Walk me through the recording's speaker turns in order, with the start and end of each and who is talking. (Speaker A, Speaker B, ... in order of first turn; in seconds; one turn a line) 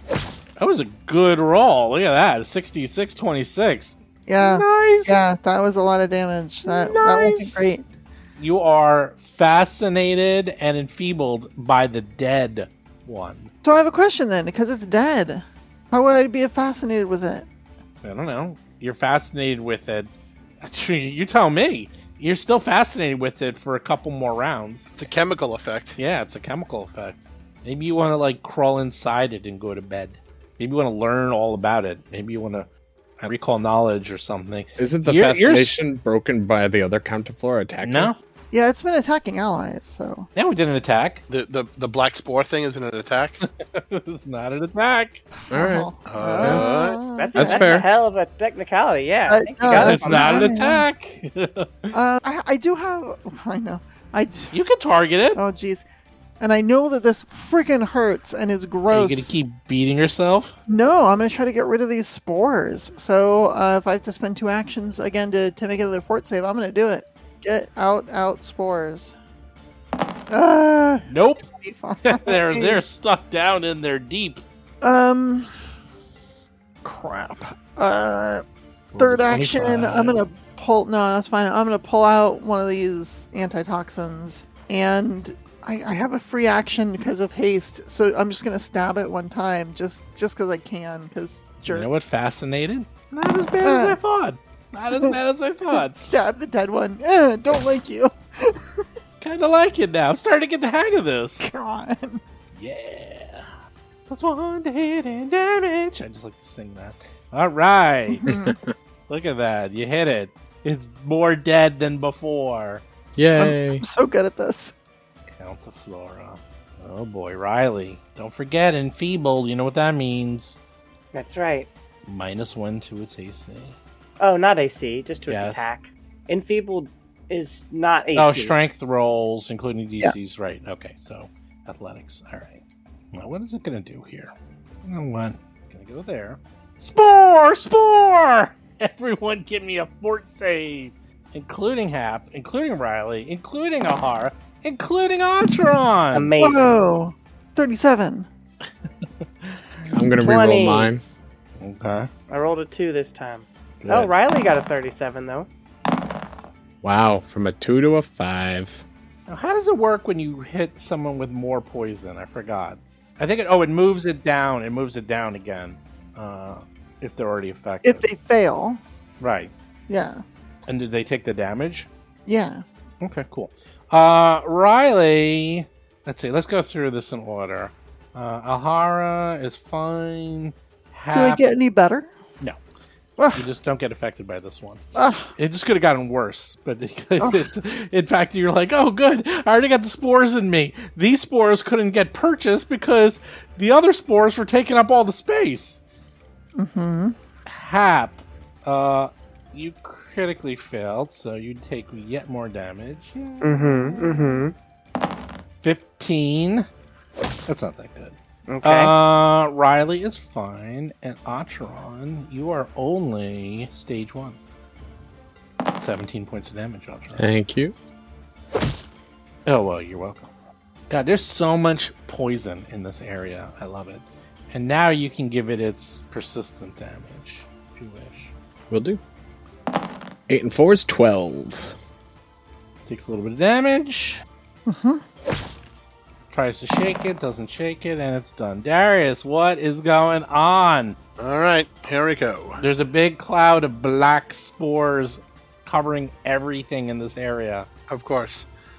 Speaker A: 0.6-5.2
Speaker B: 4.3-7.8
Speaker A: 6.6-7.8
Speaker A: 8.4-13.5
Speaker B: 13.6-17.5
Speaker A: 18.0-24.9
Speaker C: 25.0-26.0
Speaker A: 26.0-32.7
Speaker A: 33.2-35.8
Speaker D: 34.8-38.1
Speaker A: 37.8-38.2
Speaker B: 38.5-40.3
Speaker A: 40.3-41.2
Speaker C: 41.3-43.4
Speaker A: 43.4-45.2
Speaker B: 45.5-47.8
Speaker D: 45.5-47.8
Speaker C: 46.1-47.0
Speaker E: 47.1-50.5
Speaker B: 49.3-50.9
Speaker A: 49.6-51.9
Speaker B: 51.9-54.5
Speaker A: 54.5-55.4
Speaker B: 55.4-55.8
Speaker B: 56.4-59.4
Speaker A: 58.9-60.5
Speaker B: 60.7-69.2
Speaker B: 70.3-72.8
Speaker A: 71.1-71.5
Speaker A: 72.0-74.4
Speaker B: 74.8-75.5
Speaker B: 76.8-78.4
Speaker A: 78.9-80.2
Speaker B: 79.0-91.9
Speaker A: 91.7-96.2
Speaker B: 93.6-94.0
Speaker B: 95.7-98.8
Speaker A: 99.2-101.5
Speaker B: 101.4-102.2
Speaker A: 102.5-103.5
Speaker A: 104.1-108.2
Speaker B: 108.1-108.6
Speaker D: 108.3-108.7
Speaker A: 109.1-112.8
Speaker D: 113.2-113.8
Speaker B: 113.3-114.7
Speaker A: 115.3-120.6
Speaker E: 121.1-121.7
Speaker A: 122.0-123.8
Speaker E: 124.2-128.6
Speaker A: 125.3-125.7
Speaker A: 128.1-134.3
Speaker A: 134.8-146.3
Speaker E: 146.1-146.8
Speaker B: 146.4-148.3
Speaker A: 149.0-149.6
Speaker D: 149.9-151.0
Speaker E: 150.2-150.9
Speaker A: 151.6-152.1
Speaker E: 152.3-155.5
Speaker A: 153.8-154.1
Speaker D: 156.8-158.8
Speaker A: 159.3-168.1
Speaker B: 167.8-168.8
Speaker A: 169.2-169.5
Speaker B: 169.9-170.2
Speaker A: 170.7-171.9
Speaker B: 172.3-172.6
Speaker A: 173.0-181.5
Speaker B: 181.1-182.1
Speaker B: 183.2-183.4
Speaker A: 183.3-184.8
Speaker B: 184.9-185.3
Speaker A: 185.3-195.8
Speaker B: 196.5-197.2
Speaker A: 197.4-204.0
Speaker E: 203.4-204.5
Speaker A: 205.6-206.7
Speaker A: 207.5-214.4
Speaker E: 208.5-208.9
Speaker A: 215.8-217.3
Speaker D: 217.2-217.7
Speaker A: 219.4-220.3
Speaker A: 220.9-228.3
Speaker D: 228.7-229.0
Speaker D: 230.3-231.8
Speaker A: 232.9-234.2
Speaker B: 234.7-235.0
Speaker A: 236.3-241.0
Speaker C: 241.2-242.6
Speaker A: 242.6-247.7
Speaker C: 247.9-248.5